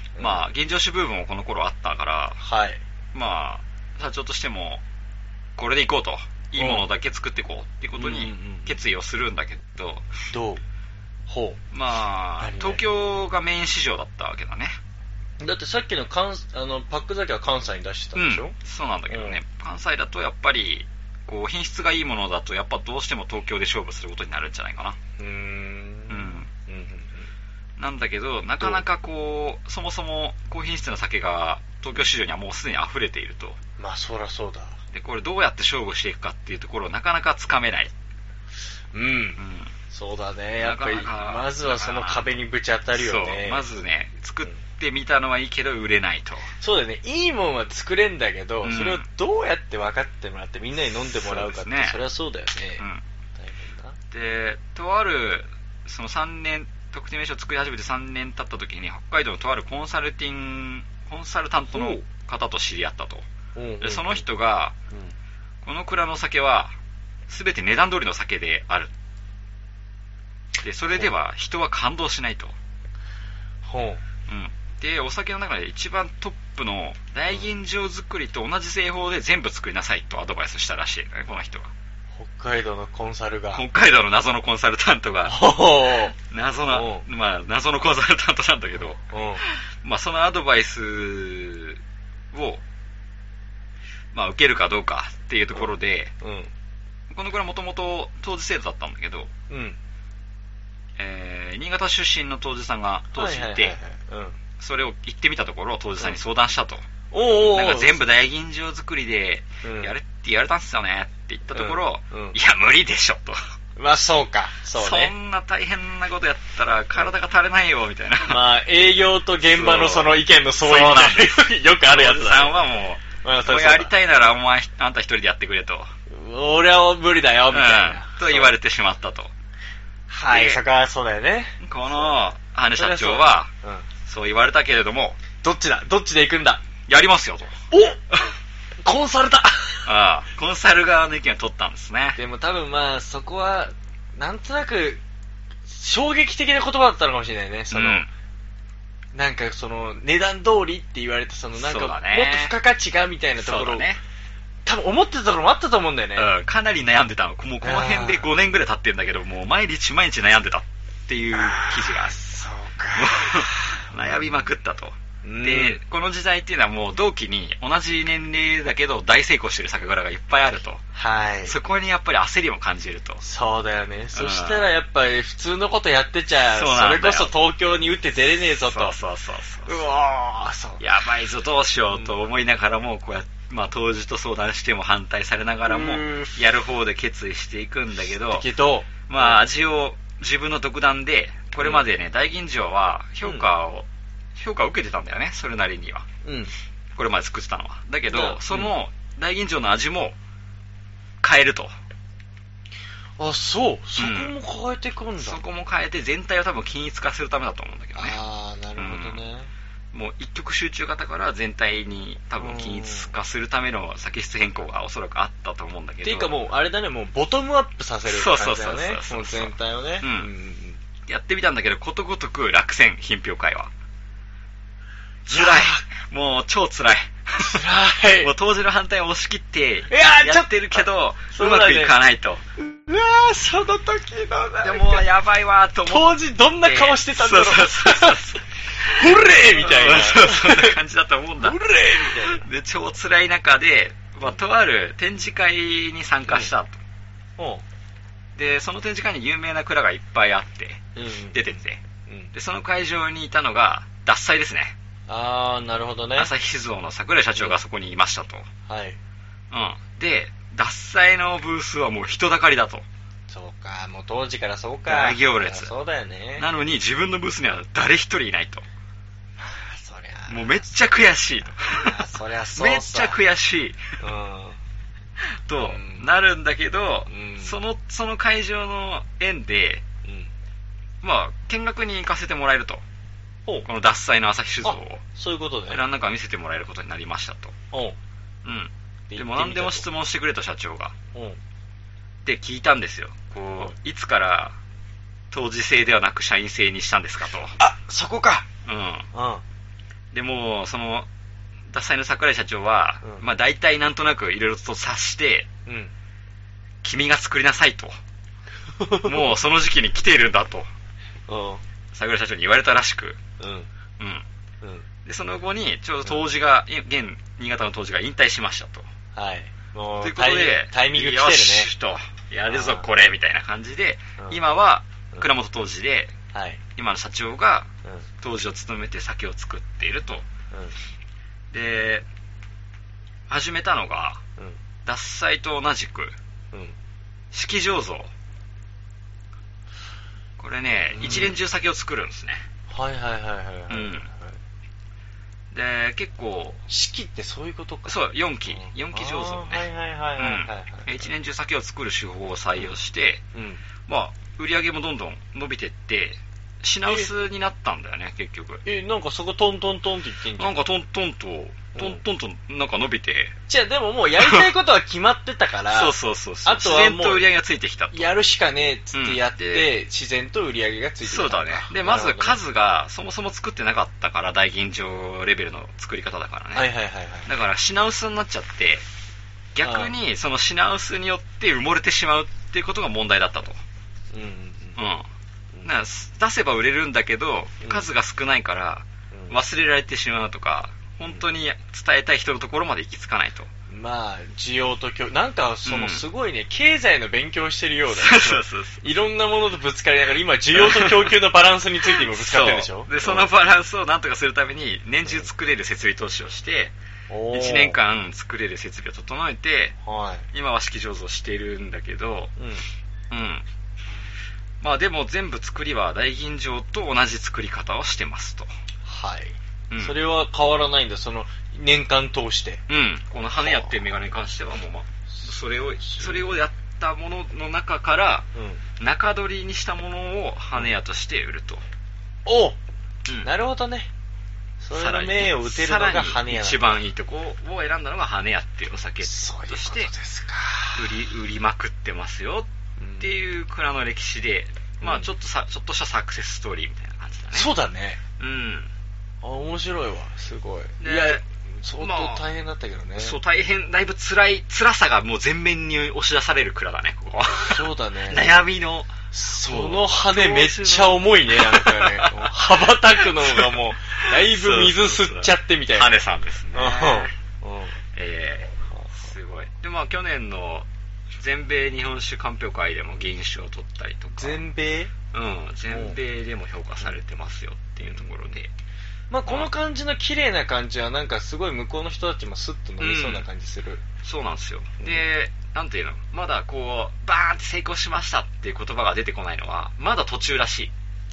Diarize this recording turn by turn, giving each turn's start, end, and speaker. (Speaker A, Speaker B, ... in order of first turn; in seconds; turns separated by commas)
Speaker A: 0.2-0.5, Speaker B: 0.2-2.4, Speaker A: 2.4-2.8, Speaker B: 3.1-4.8, Speaker B: 5.6-10.1, Speaker A: 6.5-6.8, Speaker A: 8.0-8.8, Speaker A: 10.3-10.6, Speaker A: 11.3-11.6, Speaker B: 11.7-14.8, Speaker A: 12.4-12.8, Speaker A: 15.4-18.5, Speaker B: 18.1-25.0, Speaker A: 19.1-19.4, Speaker A: 25.2-27.3, Speaker B: 26.1-26.5, Speaker B: 27.8-33.6, Speaker A: 33.8-34.8, Speaker B: 34.9-37.9, Speaker A: 38.9-39.4, Speaker B: 39.4-39.7, Speaker A: 39.9-43.6, Speaker B: 40.6-42.3, Speaker B: 43.0-46.5, Speaker A: 46.6-52.8, Speaker B: 48.6-49.0, Speaker B: 51.1-52.0, Speaker A: 53.4-54.0, Speaker B: 54.1-63.2, Speaker A: 61.7-62.0, Speaker A: 63.5-64.2, Speaker B: 63.8-64.8, Speaker B: 65.6-66.7, Speaker B: 67.3-68.9, Speaker B: 70.6-72.5, Speaker A: 73.6-74.0, Speaker B: 74.3-81.7, Speaker A: 82.1-83.6, Speaker B: 83.5-85.5, Speaker A: 85.2-86.1, Speaker B: 86.1-91.8, Speaker A: 86.7-87.0, Speaker A: 88.8-89.4, Speaker B: 92.3-92.6, Speaker B: 94.1-96.1, Speaker A: 95.5-96.5, Speaker B: 97.1-99.3, Speaker A: 99.5-99.8, Speaker B: 101.0-103.7, Speaker A: 103.1-104.4, Speaker B: 104.6-113.4, Speaker A: 107.1-108.0, Speaker A: 109.6-109.9, Speaker A: 111.5-112.3, Speaker A: 113.8-115.1, Speaker B: 114.7-118.5, Speaker A: 118.3-122.6, Speaker B: 119.4-125.9, Speaker A: 123.2-123.9, Speaker A: 126.1-128.6, Speaker B: 127.5-129.3, Speaker A: 130.1-132.1, Speaker B: 130.3-130.6, Speaker B: 131.6-133.5, Speaker A: 132.7-133.9, Speaker B: 134.1-135.2, Speaker A: 135.4-136.6, Speaker B: 136.9-137.5, Speaker A: 137.7-138.0, Speaker A: 138.8-139.9, Speaker B: 139.8-142.2, Speaker A: 142.2-145.0, Speaker A: 145.7-148.0, Speaker B: 147.7-148.1, Speaker A: 149.1-153.8, Speaker B: 151.6-152.5, Speaker B: 153.4-154.0, Speaker A: 154.7-156.3, Speaker B: 156.2-162.2, Speaker A: 157.6-158.2, Speaker A: 161.3-164.4, Speaker B: 162.9-170.8, Speaker A: 165.2-165.8, Speaker A: 170.9-171.6, Speaker B: 171.4-173.2, Speaker A: 173.2-178.9, Speaker B: 174.1-174.7, Speaker B: 176.5-177.3, Speaker B: 178.6-179.8, Speaker A: 179.7-180.8, Speaker B: 180.8-188.5, Speaker A: 185.7-186.3, Speaker A: 188.3-189.4, Speaker B: 189.1-196.1, Speaker A: 196.2-196.5, Speaker B: 196.9-200.2, Speaker A: 198.1-198.7, Speaker B: 201.2-201.7, Speaker A: 203.2-205.4, Speaker B: 204.0-204.3, Speaker B: 205.2-208.2, Speaker A: 207.9-209.5, Speaker B: 208.8-209.2, Speaker B: 209.9-216.4, Speaker A: 212.4-213.1, Speaker A: 216.0-220.8, Speaker B: 218.1-220.3, Speaker B: 221.1-223.7, Speaker B: 225.2-227.6, Speaker A: 225.3-225.9, Speaker A: 227.4-228.3, Speaker B: 228.2-232.4, Speaker A: 229.9-231.9, Speaker A: 232.6-235.1, Speaker B: 234.6-246.8, Speaker A: 235.8-238.2, Speaker A: 238.8-240.8, Speaker A: 241.4-242.4, Speaker A: 246.3-246.5, Speaker A: 247.4-247.6, Speaker B: 248.3-251.8, Speaker A: 250.9-252.3, Speaker B: 252.3-254.7, Speaker A: 255.1-256.3, Speaker B: 256.2-258.5, Speaker A: 258.7-259.0, Speaker B: 259.5-262.8, Speaker A: 263.3-266.5, Speaker B: 264.9-265.7, Speaker B: 266.4-268.6, Speaker A: 269.4-270.7, Speaker B: 270.3-273.8, Speaker A: 271.5-273.2, Speaker A: 274.0-274.6, Speaker B: 275.3-279.8, Speaker A: 275.6-276.1, Speaker A: 277.1-277.5, Speaker A: 280.0-280.3, Speaker B: 281.0-282.8, Speaker B: 283.6-285.0, Speaker A: 284.6-285.8, Speaker B: 285.7-287.5, Speaker B: 288.4-290.9, Speaker A: 289.1-289.9, Speaker A: 291.1-291.4, Speaker B: 292.2-294.5, Speaker B: 295.3-297.5, Speaker A: 297.6-298.4, Speaker B: 298.6-299.1, Speaker A: 299.1-299.4, Speaker B: 300.1-301.1, Speaker B: 301.7-305.5, Speaker A: 305.6-305.9, Speaker B: 306.8-307.9, Speaker A: 308.8-309.3, Speaker B: 309.0-310.7, Speaker A: 311.3-311.6, Speaker B: 311.9-313.2, Speaker A: 313.4-313.7, Speaker B: 314.0-314.2, Speaker B: 315.0-318.9, Speaker A: 319.1-321.7, Speaker B: 320.0-326.1, Speaker A: 322.5-322.9, Speaker A: 326.3-326.6, Speaker B: 326.8-327.7, Speaker B: 328.2-330.2, Speaker B: 331.5-332.1, Speaker B: 333.3-334.2, Speaker B: 334.8-336.1, Speaker B: 337.3-338.1, Speaker B: 340.4-342.4, Speaker A: 340.9-341.4, Speaker A: 342.7-344.4, Speaker B: 343.7-344.1, Speaker B: 345.5-346.6, Speaker A: 346.7-351.1, Speaker B: 347.9-353.2, Speaker A: 353.3-353.6, Speaker B: 353.9-358.6, Speaker A: 358.6-360.6, Speaker B: 360.4-363.4, Speaker A: 361.7-362.0, Speaker A: 363.5-365.9, Speaker B: 364.2-364.4, Speaker B: 365.7-368.1, Speaker A: 366.4-367.2, Speaker A: 367.9-372.4, Speaker B: 368.9-369.7, Speaker B: 371.0-376.7, Speaker A: 376.5-377.3, Speaker B: 377.2-378.8, Speaker B: 379.5-383.6, Speaker A: 379.6-379.9, Speaker A: 384.1-384.8, Speaker B: 384.8-385.1, Speaker B: 385.6-393.5, Speaker A: 387.6-387.9, Speaker A: 389.1-389.4, Speaker A: 393.7-403.3, Speaker B: 395.6-396.0, Speaker B: 397.9-398.8, Speaker B: 400.5-401.2, Speaker B: 401.9-406.7, Speaker A: 407.1-407.8, Speaker B: 407.3-409.8, Speaker A: 409.8-410.3, Speaker B: 410.3-412.3, Speaker A: 412.4-412.6, Speaker B: 413.1-413.4, Speaker B: 414.6-418.5, Speaker A: 418.8-422.6, Speaker B: 419.7-420.0, Speaker B: 422.7-428.3, Speaker A: 423.4-423.7, Speaker A: 425.1-426.4, Speaker A: 428.3-428.6, Speaker B: 428.8-431.6, Speaker A: 432.2-432.6, Speaker A: 433.2-433.9, Speaker A: 434.6-436.8, Speaker B: 434.7-439.9, Speaker A: 439.0-441.0, Speaker B: 440.8-442.5, Speaker A: 442.8-443.1, Speaker B: 443.0-447.5, Speaker A: 444.8-445.1, Speaker A: 447.3-448.0, Speaker B: 448.2-448.7, Speaker A: 449.2-453.2, Speaker B: 450.8-451.2, Speaker B: 451.8-452.2, Speaker B: 453.0-462.2, Speaker A: 457.5-458.3, Speaker A: 459.1-466.0, Speaker B: 463.1-463.5, Speaker B: 464.2-467.1, Speaker A: 466.5-467.8, Speaker B: 467.9-470.7, Speaker A: 468.7-469.1, Speaker B: 471.2-474.4, Speaker A: 474.1-474.9, Speaker B: 475.1-478.5, Speaker A: 475.7-476.0, Speaker A: 477.8-478.3, Speaker A: 479.1-483.8, Speaker B: 482.8-483.2, Speaker B: 484.0-490.7, Speaker A: 484.8-485.0